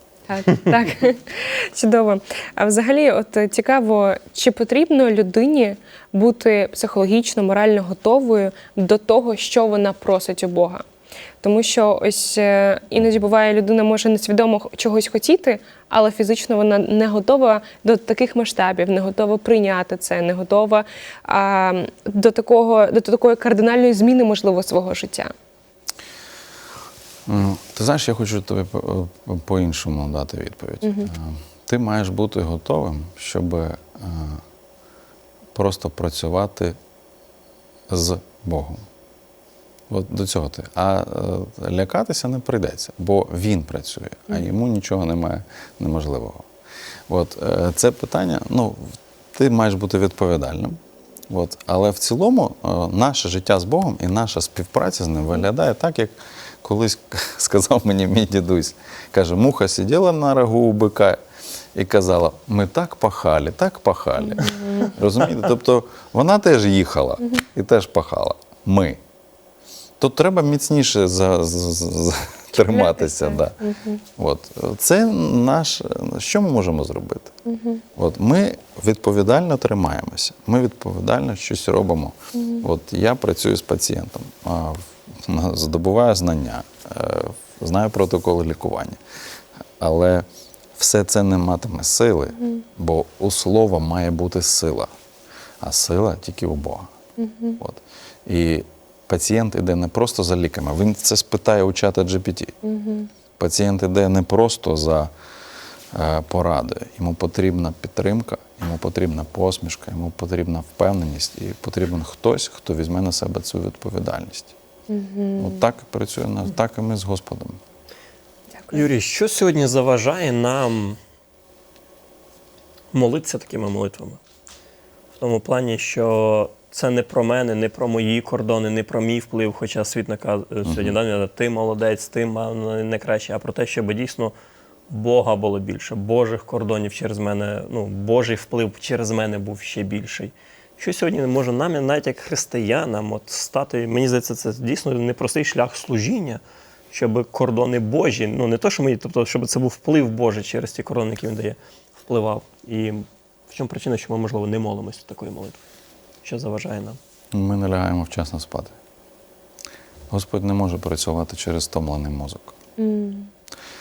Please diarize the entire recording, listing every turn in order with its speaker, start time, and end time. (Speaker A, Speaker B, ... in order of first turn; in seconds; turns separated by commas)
Speaker A: 0.3-10.8, Speaker A: 11.4-25.3, Speaker B: 27.3-34.4, Speaker A: 30.8-31.1, Speaker B: 35.5-36.8, Speaker B: 37.9-38.8, Speaker B: 39.9-46.5, Speaker B: 47.1-50.8, Speaker B: 51.3-61.2, Speaker B: 61.8-69.0, Speaker A: 64.3-64.9, Speaker B: 70.0-73.6, Speaker A: 72.6-74.0, Speaker B: 74.2-77.3, Speaker A: 77.5-77.8, Speaker B: 78.0-89.0, Speaker A: 82.3-82.6, Speaker B: 89.8-94.9, Speaker B: 95.6-96.9, Speaker A: 97.2-97.6, Speaker B: 97.6-102.5, Speaker A: 102.7-103.1, Speaker B: 103.4-105.1, Speaker B: 105.9-114.5, Speaker A: 114.9-115.6, Speaker B: 115.4-117.6, Speaker A: 118.6-118.9, Speaker C: 118.7-121.0, Speaker C: 122.9-124.2, Speaker C: 125.2-134.3, Speaker B: 130.7-131.0, Speaker C: 134.9-155.6, Speaker C: 156.2-157.0, Speaker B: 157.3-158.8, Speaker B: 160.1-162.6, Speaker A: 162.8-163.3